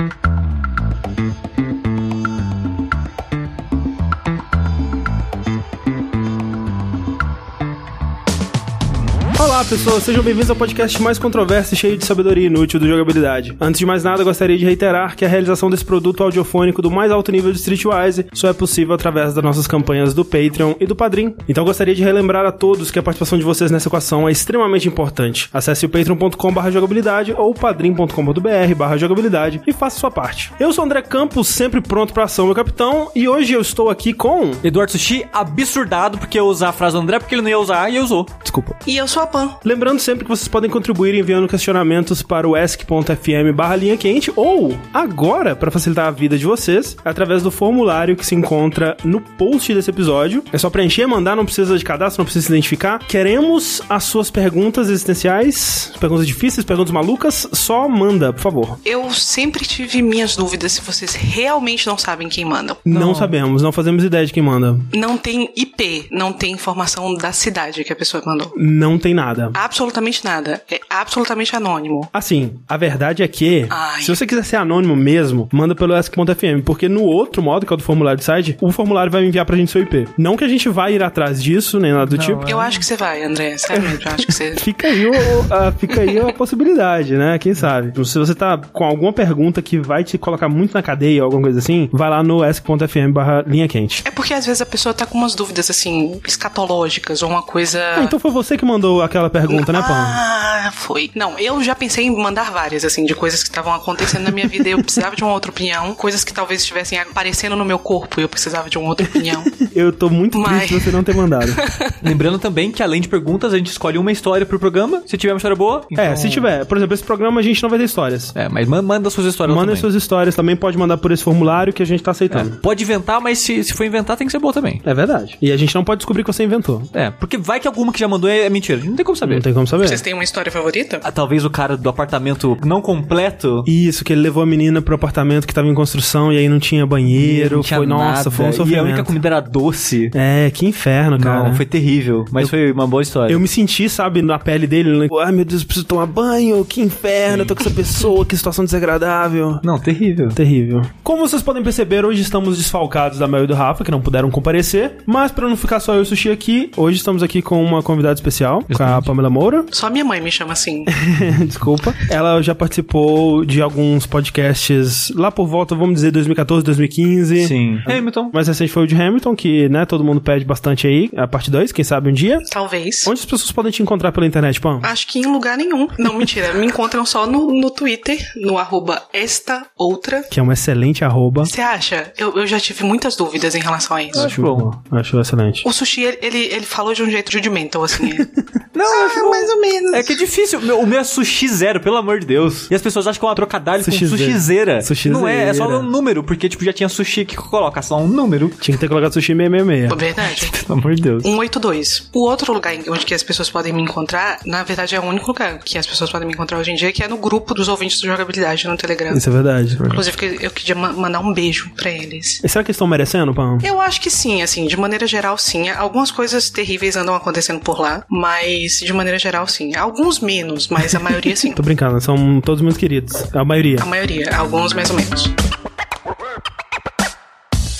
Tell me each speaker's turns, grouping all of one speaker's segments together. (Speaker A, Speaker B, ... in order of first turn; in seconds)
Speaker A: 9.4-34.6, 38.4-38.8, 39.6-58.8, 62.9-64.9, 68.5-69.6, 72.1-82.5, 83.7-94.0, 98.0-100.2, 109.5-111.6, 116.0-118.3, 119.5-122.6, 124.8-126.9, 129.2-130.0, 133.6-139.1, 140.1-141.6, 143.3-149.6, 150.3-159.7, 160.9-172.4, 173.0-174.9, 180.3-181.5, 184.1-185.6, 193.8-195.9, 198.6-200.0, 209.1-209.9, 212.4-213.7, 221.5-223.9
Speaker B: 34.6-38.4, 62.9-63.4, 82.0-82.8, 112.0-116.5, 118.3-119.9, 122.3-124.8, 126.9-129.4, 131.0-133.7, 137.1-140.1, 141.2-143.4, 147.3-147.6, 149.6-150.4, 158.7-159.1, 167.4-168.3, 184.1-184.7, 188.7-198.6, 200.2-201.3, 209.8-210.1
Speaker C: 38.8-39.6, 58.8-62.8, 64.9-68.5, 69.5-72.1, 73.7-74.2, 82.5-86.3, 94.0-98.1, 99.5-109.6, 110.3-112.0, 129.8-131.0, 159.7-160.9, 172.5-173.1, 174.8-180.3, 181.4-184.3, 185.6-188.3, 188.9-190.2, 199.9-200.6, 201.2-209.2, 209.9-212.4, 213.6-221.6, 223.8-225.3